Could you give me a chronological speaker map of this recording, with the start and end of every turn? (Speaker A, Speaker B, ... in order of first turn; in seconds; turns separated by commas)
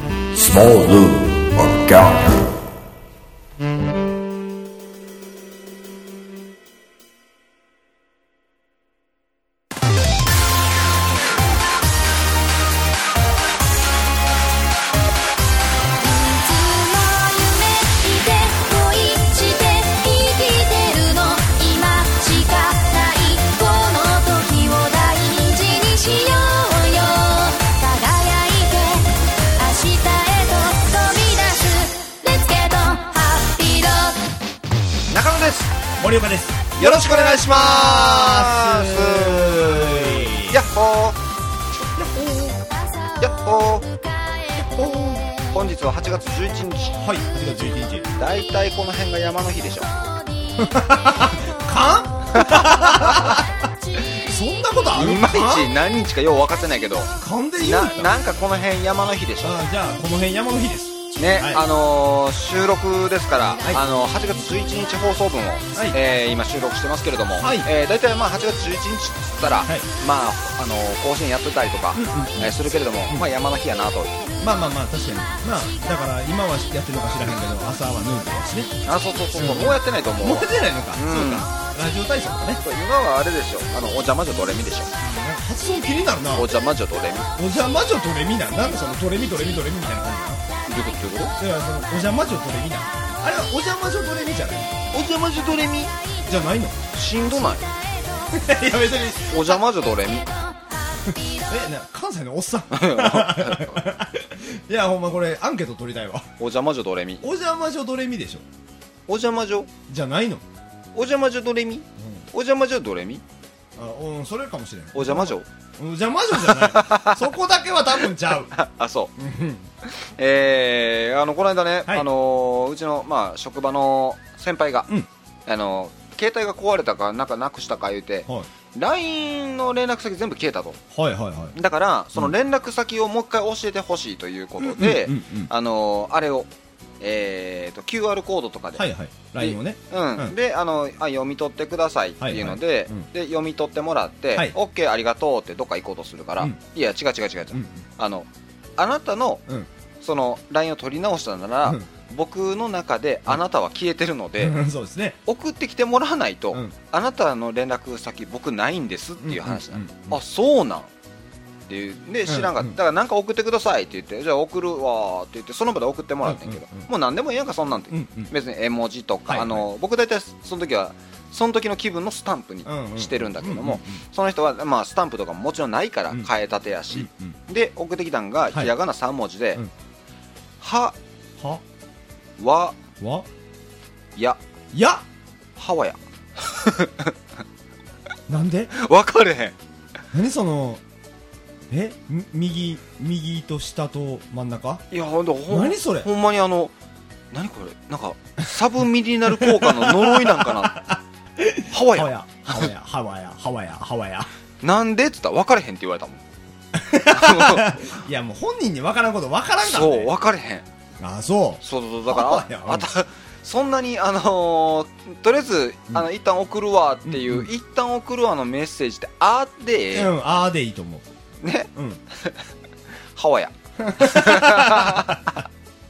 Speaker A: 0.3-2.6, Speaker B: 16.0-34.3, Speaker C: 35.1-35.7, Speaker D: 36.0-40.6, Speaker C: 36.8-41.2, Speaker D: 42.0-42.6, Speaker C: 43.2-43.9, Speaker D: 44.6-45.3, Speaker C: 45.5-47.0, Speaker D: 47.0-48.1, Speaker C: 48.2-49.9, Speaker D: 50.6-53.6, Speaker C: 52.3-53.4, Speaker D: 54.2-55.7, Speaker C: 55.0-59.5, Speaker D: 57.2-58.1, Speaker D: 59.4-61.6, Speaker C: 61.2-74.3, Speaker D: 67.3-67.7, Speaker D: 71.9-72.5, Speaker D: 74.4-78.7, Speaker C: 78.9-81.5, Speaker D: 79.3-82.6, Speaker C: 82.6-84.9, Speaker D: 85.0-86.5, Speaker C: 86.4-87.3, Speaker D: 87.4-90.4, Speaker C: 90.7-91.3, Speaker D: 91.4-94.7, Speaker C: 94.9-95.9, Speaker D: 96.3-96.8, Speaker C: 96.9-97.7, Speaker D: 98.3-99.6, Speaker C: 99.3-100.3, Speaker D: 101.1-106.3, Speaker C: 102.7-103.9, Speaker C: 106.4-107.2, Speaker D: 107.2-108.5, Speaker C: 109.1-109.7, Speaker D: 109.9-110.4, Speaker C: 111.0-113.2, Speaker D: 112.0-112.2, Speaker D: 113.8-118.5, Speaker C: 115.0-115.5, Speaker C: 116.4-117.2, Speaker C: 118.5-119.1, Speaker D: 119.2-119.7, Speaker C: 119.8-124.9, Speaker C: 125.5-130.8, Speaker D: 130.9-131.6, Speaker C: 131.5-136.5, Speaker D: 134.6-135.5, Speaker C: 137.0-149.4, Speaker D: 138.8-140.3, Speaker D: 142.2-143.1, Speaker D: 147.5-147.8, Speaker C: 150.0-154.6, Speaker D: 154.4-155.2, Speaker C: 155.3-160.9, Speaker D: 159.2-160.2, Speaker C: 161.7-179.6, Speaker D: 162.3-162.8, Speaker D: 166.2-166.9, Speaker D: 167.9-168.3, Speaker D: 169.3-169.7, Speaker D: 172.7-174.0, Speaker D: 176.9-177.4, Speaker C: 180.6-180.9, Speaker C: 182.4-182.8, Speaker D: 183.0-183.3, Speaker D: 184.7-185.0, Speaker C: 185.6-187.1, Speaker D: 188.3-188.7, Speaker C: 188.7-189.6, Speaker D: 190.1-190.8, Speaker D: 191.7-194.8, Speaker C: 194.9-196.7, Speaker D: 195.5-196.1, Speaker C: 197.3-200.8, Speaker D: 199.3-204.3, Speaker C: 201.7-202.1, Speaker C: 204.6-206.2, Speaker D: 206.7-210.1, Speaker C: 207.1-207.7, Speaker C: 209.6-210.7, Speaker D: 211.0-212.9, Speaker C: 211.6-220.1, Speaker D: 217.1-217.5, Speaker D: 219.9-221.1, Speaker C: 221.4-222.4, Speaker D: 221.8-222.0, Speaker C: 223.2-225.4, Speaker D: 223.8-225.3